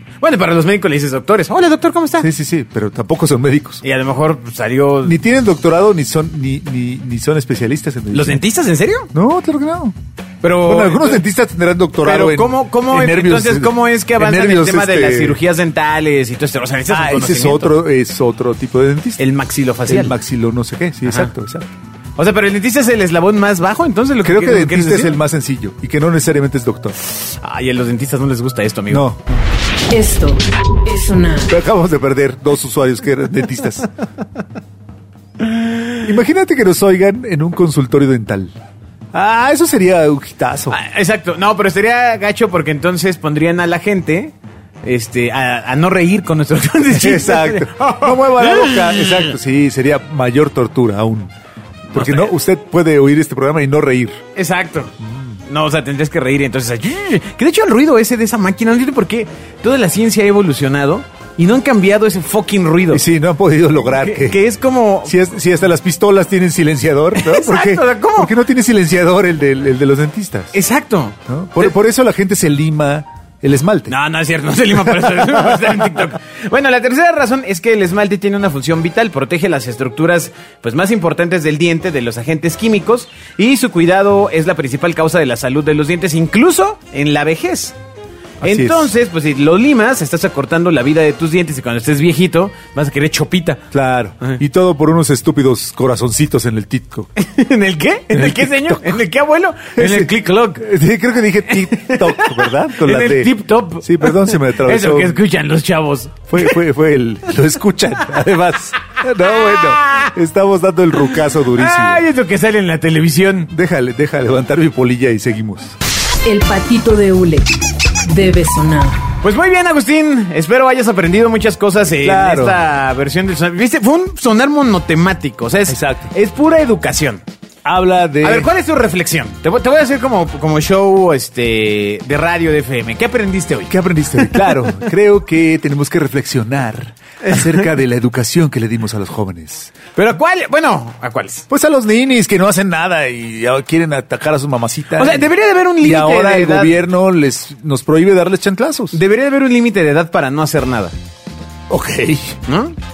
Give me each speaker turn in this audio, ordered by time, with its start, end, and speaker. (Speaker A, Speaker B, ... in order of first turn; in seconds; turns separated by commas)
Speaker A: 0.2-2.3, Speaker B: 2.2-3.8, Speaker A: 3.8-5.2, Speaker B: 5.0-8.4, Speaker A: 8.1-9.1, Speaker B: 9.1-9.9, Speaker A: 10.4-11.2, Speaker B: 10.6-15.4, Speaker A: 12.0-17.8, Speaker B: 16.9-19.2, Speaker A: 19.2-20.1, Speaker B: 19.9-21.6, Speaker A: 21.0-21.3, Speaker A: 22.2-25.2, Speaker B: 24.2-27.0, Speaker A: 27.3-29.0, Speaker B: 28.9-29.3, Speaker C: 29.9-31.5, Speaker B: 31.5-33.9, Speaker A: 35.4-36.1, Speaker B: 36.0-38.5, Speaker B: 39.1-40.8, Speaker A: 40.7-49.3, Speaker B: 46.9-51.3, Speaker B: 51.9-54.2, Speaker A: 51.9-52.3, Speaker A: 54.4-54.9, Speaker B: 55.0-55.4, Speaker A: 55.5-63.0, Speaker B: 62.9-64.4, Speaker A: 63.8-65.2, Speaker B: 65.0-70.5, Speaker A: 67.1-68.3, Speaker A: 70.5-71.7, Speaker B: 71.3-73.9, Speaker A: 73.9-87.8, Speaker B: 75.0-75.5, Speaker A: 88.4-93.6, Speaker B: 88.4-88.9, Speaker B: 93.7-97.1, Speaker A: 97.2-100.7, Speaker B: 98.1-99.0, Speaker B: 99.8-105.2, Speaker A: 101.5-106.6, Speaker B: 106.3-112.0, Speaker A: 109.5-110.1, Speaker A: 111.0-113.5, Speaker B: 113.5-115.8, Speaker C: 116.2-117.5, Speaker C: 118.0-119.0, Speaker A: 119.2-127.2, Speaker B: 122.0-122.6, Speaker B: 125.7-126.1, Speaker B: 127.6-128.5, Speaker A: 128.2-134.8, Speaker B: 133.7-139.8, Speaker A: 137.2-137.7, Speaker A: 139.9-141.4, Speaker B: 141.5-145.3, Speaker A: 144.9-146.8, Speaker B: 145.8-149.0, Speaker A: 148.9-150.9, Speaker B: 151.7-152.4, Speaker A: 152.5-152.8